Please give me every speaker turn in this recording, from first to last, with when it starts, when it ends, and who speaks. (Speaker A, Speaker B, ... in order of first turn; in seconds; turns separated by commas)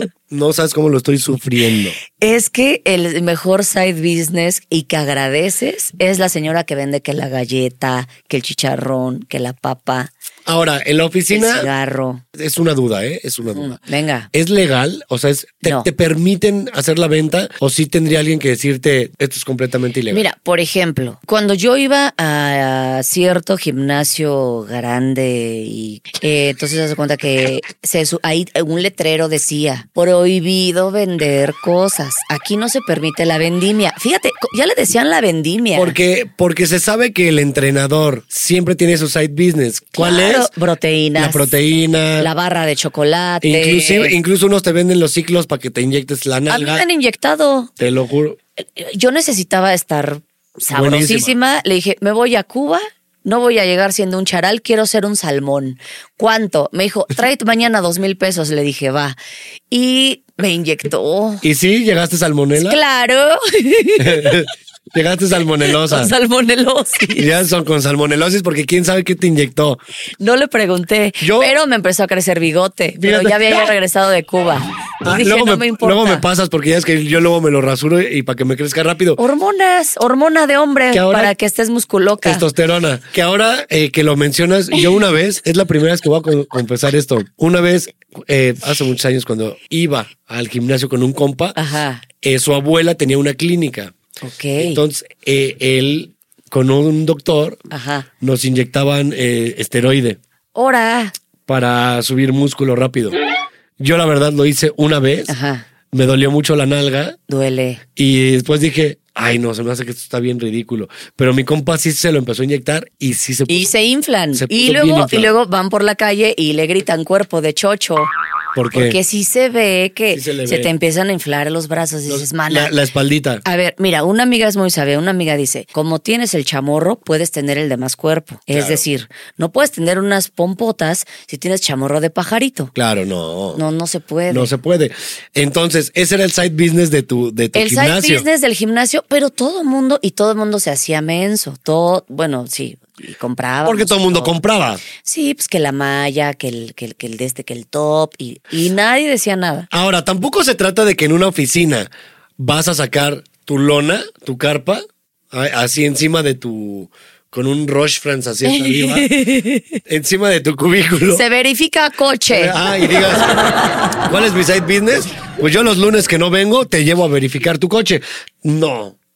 Speaker A: 0.3-2.0, Speaker B: 2.2-10.1, Speaker A: 10.5-11.7, Speaker B: 11.3-12.2, Speaker A: 12.3-13.8, Speaker B: 13.5-14.3, Speaker A: 14.3-20.2, Speaker B: 20.1-36.0, Speaker A: 35.8-40.5, Speaker B: 40.0-41.5, Speaker A: 41.2-42.3, Speaker B: 42.2-44.2, Speaker A: 43.4-46.9, Speaker B: 46.5-47.7, Speaker A: 47.8-48.4, Speaker B: 48.6-59.2, Speaker A: 50.7-51.4, Speaker B: 59.7-61.4, Speaker A: 61.4-62.8, Speaker B: 62.6-64.5, Speaker A: 64.0-66.1, Speaker B: 65.7-67.3, Speaker A: 67.2-69.8, Speaker B: 70.2-76.2, Speaker A: 71.2-71.6, Speaker A: 73.0-73.7, Speaker A: 75.0-79.2, Speaker B: 79.2-82.5, Speaker A: 80.9-81.3, Speaker A: 82.2-91.6, Speaker B: 91.6-92.0, Speaker A: 92.2-93.9, Speaker B: 94.2-94.8, Speaker A: 94.6-97.6, Speaker B: 97.7-98.1, Speaker A: 98.2-100.2, Speaker B: 100.5-101.1, Speaker A: 101.5-103.2, Speaker A: 103.8-105.3, Speaker B: 105.3-105.7, Speaker A: 105.9-107.2, Speaker B: 107.3-107.8, Speaker A: 108.0-113.7, Speaker B: 113.5-118.1, Speaker A: 114.3-115.3, Speaker A: 118.6-119.0, Speaker B: 118.7-122.8, Speaker A: 120.1-120.7, Speaker A: 122.1-123.4, Speaker B: 123.4-132.7, Speaker A: 128.5-128.8, Speaker A: 132.8-133.6, Speaker B: 133.6-134.5, Speaker A: 134.3-138.3, Speaker B: 137.6-144.4, Speaker A: 143.7-144.8, Speaker B: 145.0-149.7, Speaker A: 149.7-159.1, Speaker B: 158.4-159.8, Speaker A: 159.9-161.2, Speaker B: 161.1-163.8, Speaker A: 162.3-163.4, Speaker A: 164.0-169.0